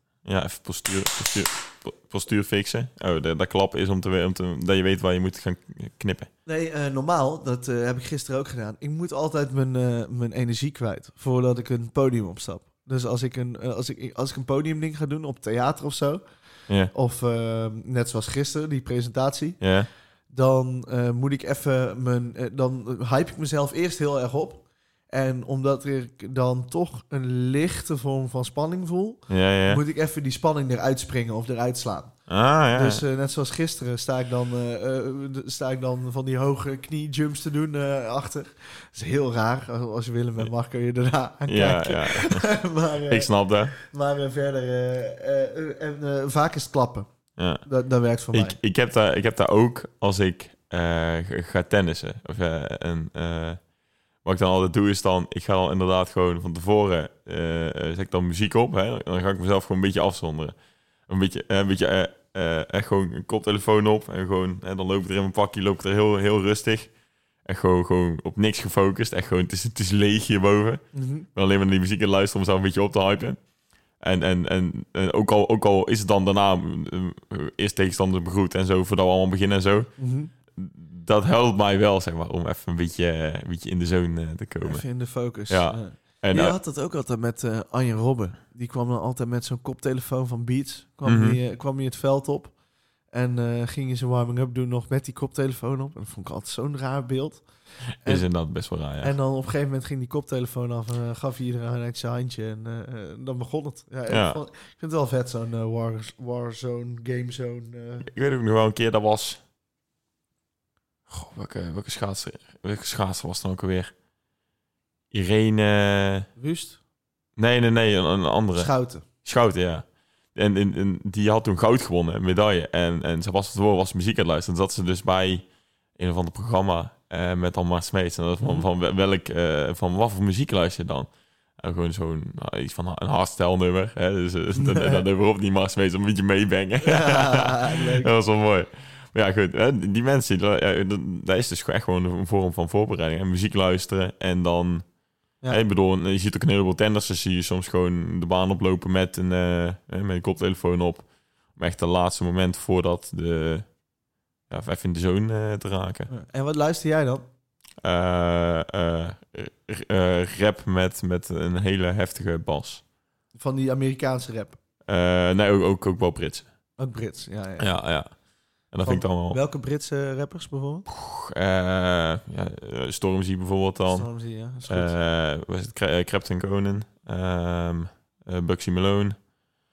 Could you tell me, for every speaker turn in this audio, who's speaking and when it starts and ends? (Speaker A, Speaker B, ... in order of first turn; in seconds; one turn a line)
Speaker A: 0.2-6.3
Speaker B: 6.5-16.2
Speaker B: 16.9-19.6
Speaker A: 19.6-19.9
Speaker B: 20.3-32.1
Speaker A: 29.3-29.8
Speaker A: 32.3-33.0
Speaker B: 32.7-47.1
Speaker A: 41.5-42.5
Speaker A: 43.1-43.8
Speaker A: 47.4-47.6
Speaker B: 47.6-48.6
Speaker A: 48.3-53.6
Speaker A: 54.2-60.5
Speaker A: 61.1-66.9
Speaker A: 67.4-70.8
Speaker B: 70.9-71.3
Speaker A: 71.3-73.4
Speaker A: 74.0-79.9
Speaker B: 80.0-80.3
Speaker A: 80.5-84.8
Speaker B: 84.6-92.5
Speaker A: 85.5-86.5
Speaker A: 91.0-91.4
Speaker B: 93.1-97.5
Speaker A: 98.0-99.1
Speaker B: 99.0-108.1
Speaker A: 104.1-104.4
Speaker A: 108.0-109.4
Speaker A: 111.1-113.9
Speaker A: 115.1-116.3
Speaker B: 116.4-116.8
Speaker A: 117.4-118.7
Speaker B: 118.5-119.0
Speaker A: 119.2-125.4
Speaker A: 126.0-144.8
Speaker B: 128.4-128.7
Speaker B: 134.5-135.0
Speaker B: 136.8-138.1
Speaker A: 145.5-153.7
Speaker A: 154.5-156.1
Speaker B: 156.1-157.2
Speaker A: 157.8-162.8
Speaker B: 163.3-164.6
Speaker A: 164.9-166.5
Speaker B: 166.8-167.7
Speaker A: 167.6-168.1
Speaker A: 168.7-169.4
Speaker B: 168.8-170.9
Speaker A: 170.9-174.1
Speaker B: 173.9-174.9
Speaker A: 174.7-179.2